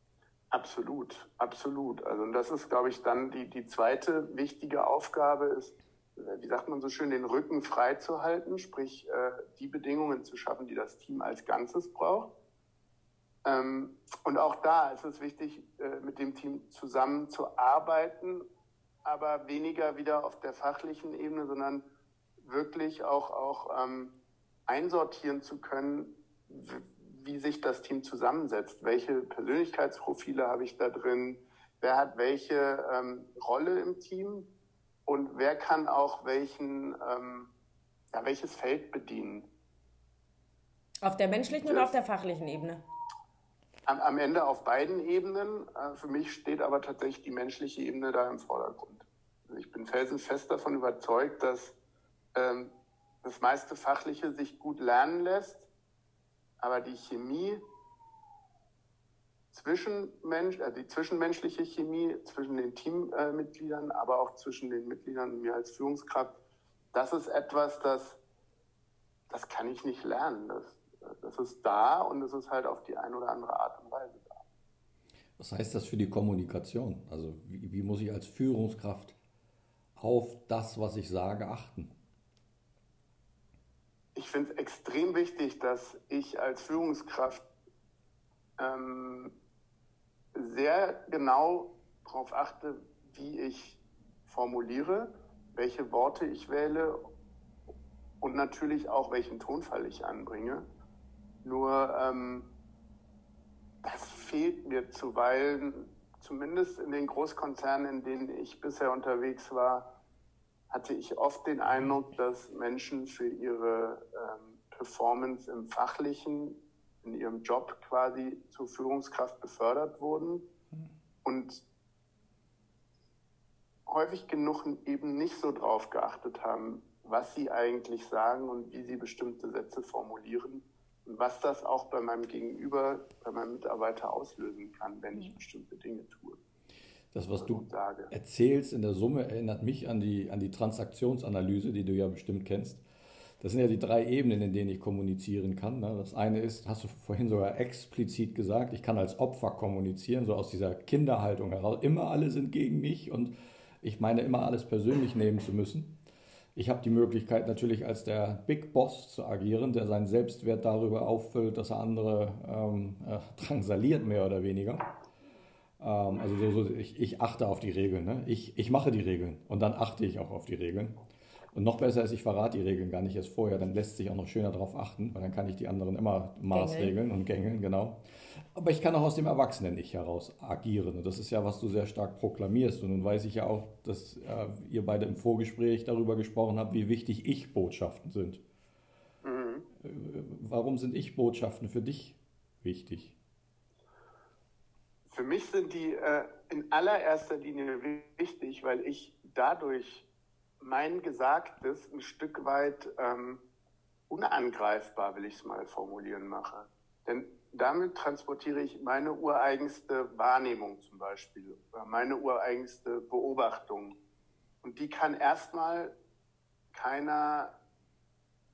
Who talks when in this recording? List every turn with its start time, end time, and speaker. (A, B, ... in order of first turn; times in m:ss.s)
0:00.5-0:12.3 A
0:13.4-0:18.5 A
0:19.0-0:21.9 A
0:22.4-0:24.2 A
0:24.7-0:34.5 A
0:35.1-0:37.5 A
0:38.1-0:39.5 A
0:41.0-0:42.8 B
0:41.6-0:41.9 A
0:43.9-0:51.8 A
0:52.3-0:55.7 A
0:56.6-0:57.6 A
0:59.5-1:06.4 A
1:06.9-1:08.2 A
1:09.3-1:14.4 A
1:15.4-1:19.2 C
1:20.0-1:21.9 C
1:24.2-1:27.4 A
1:28.6-1:29.3 A
1:30.4-1:37.0 A
1:38.2-1:40.7 A
1:41.4-1:42.5 A
1:43.8-1:50.0 A
1:50.7-2:00.5 A
2:01.2-2:01.6 A
2:03.9-2:16.4 A
2:17.1-2:22.8 C
2:17.4-2:18.1 A
2:23.4-2:36.0 C
2:36.6-2:44.9 C
2:45.8-2:51.0 C
2:51.5-3:08.4 C
2:56.5-2:56.9 B
3:09.2-3:09.7 A
3:09.8-3:13.2 C
3:15.1-3:20.1 A
3:20.6-3:23.4 A
3:24.1-3:34.0 A
3:34.6-3:35.9 A
3:36.7-3:37.6 A